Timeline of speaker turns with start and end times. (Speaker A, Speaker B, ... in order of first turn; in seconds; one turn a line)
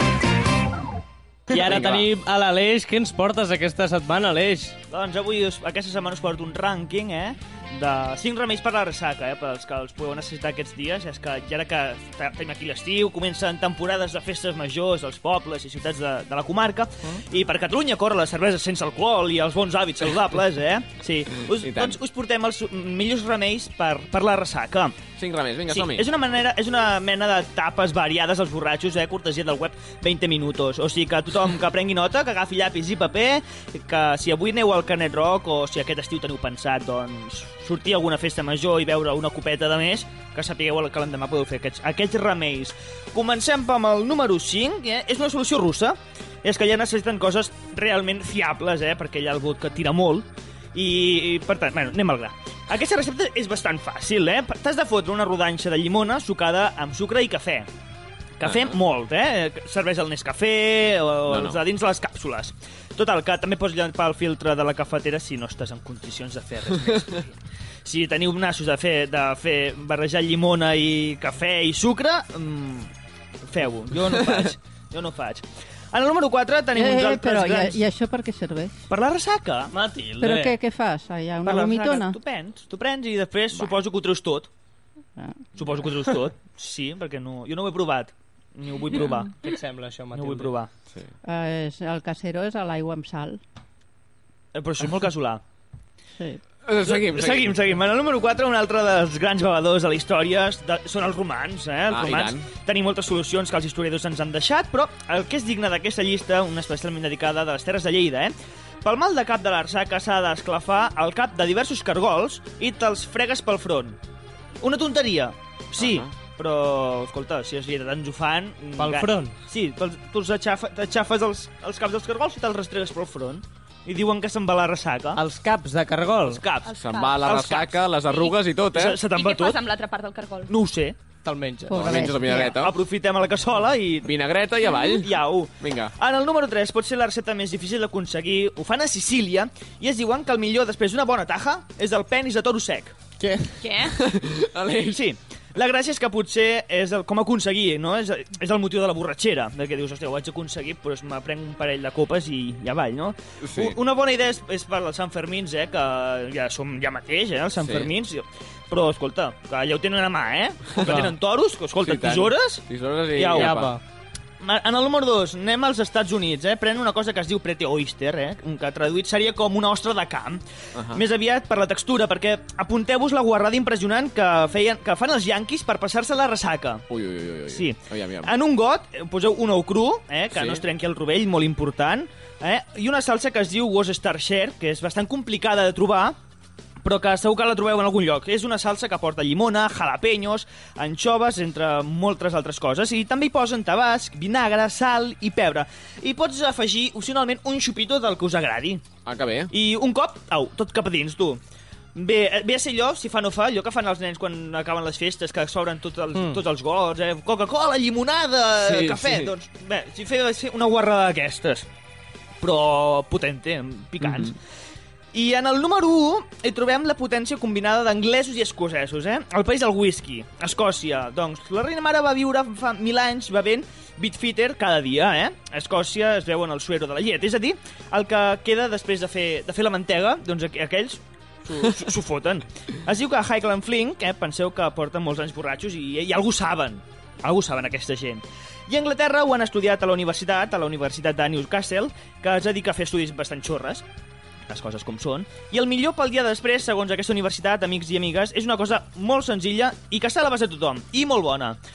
Speaker A: 1.5-4.8
Speaker B: 1.6-2.1
Speaker C: 4.9-25.0
Speaker B: 21.6-22.0
Speaker B: 25.2-26.1
Speaker C: 25.7-57.7
Speaker C: 58.4-72.9
Speaker B: 58.4-58.8
Speaker B: 61.3-61.6
Speaker C: 73.5-77.8
Speaker B: 74.1-74.5
Speaker D: 76.7-78.7
Speaker C: 78.9-79.7
Speaker A: 79.7-80.6
Speaker D: 80.2-82.2
Speaker C: 81.4-84.5
Speaker D: 85.2-85.5
Speaker C: 85.5-89.5
Speaker A: 89.4-90.5
Speaker C: 90.1-90.7
Speaker D: 91.2-93.4
Speaker C: 94.5-95.4
Speaker B: 96.7-97.6
Speaker C: 96.8-114.0
Speaker B: 101.9-102.5
Speaker C: 114.6-125.2
Speaker B: 115.8-116.1
Speaker A: 118.8-119.4
Speaker A: 125.2-126.4
Speaker C: 126.2-127.8
Speaker E: 126.7-127.2
Speaker B: 126.7-129.0
Speaker E: 128.1-128.4
Speaker C: 128.7-129.6
Speaker E: 129.0-130.5
Speaker C: 130.5-131.0
Speaker A: 131.2-132.0
Speaker D: 131.7-132.6
Speaker B: 131.8-132.7
Speaker C: 132.4-134.1
Speaker B: 134.0-135.9
Speaker C: 134.9-143.0
Speaker A: 143.2-143.6
Speaker E: 143.6-144.0
Speaker B: 143.9-145.0
Speaker C: 144.9-163.7
Speaker B: 153.4-153.8
Speaker B: 157.6-157.9
Speaker B: 160.8-161.1
Speaker A: 160.8-161.1
Speaker B: 161.8-163.8
Speaker A: 163.3-163.8
Speaker C: 164.4-176.8
Speaker B: 170.8-171.0
Speaker B: 176.9-178.3
Speaker C: 177.5-186.2
Speaker B: 180.3-180.6
Speaker C: 186.8-198.8
Speaker B: 199.1-199.5
Speaker C: 199.5-201.4
Speaker C: 201.9-211.7
Speaker A: 206.2-206.4
Speaker B: 208.6-209.3
Speaker C: 212.4-214.4
Speaker B: 214.0-214.3
Speaker C: 215.1-243.8
Speaker C: 244.5-251.6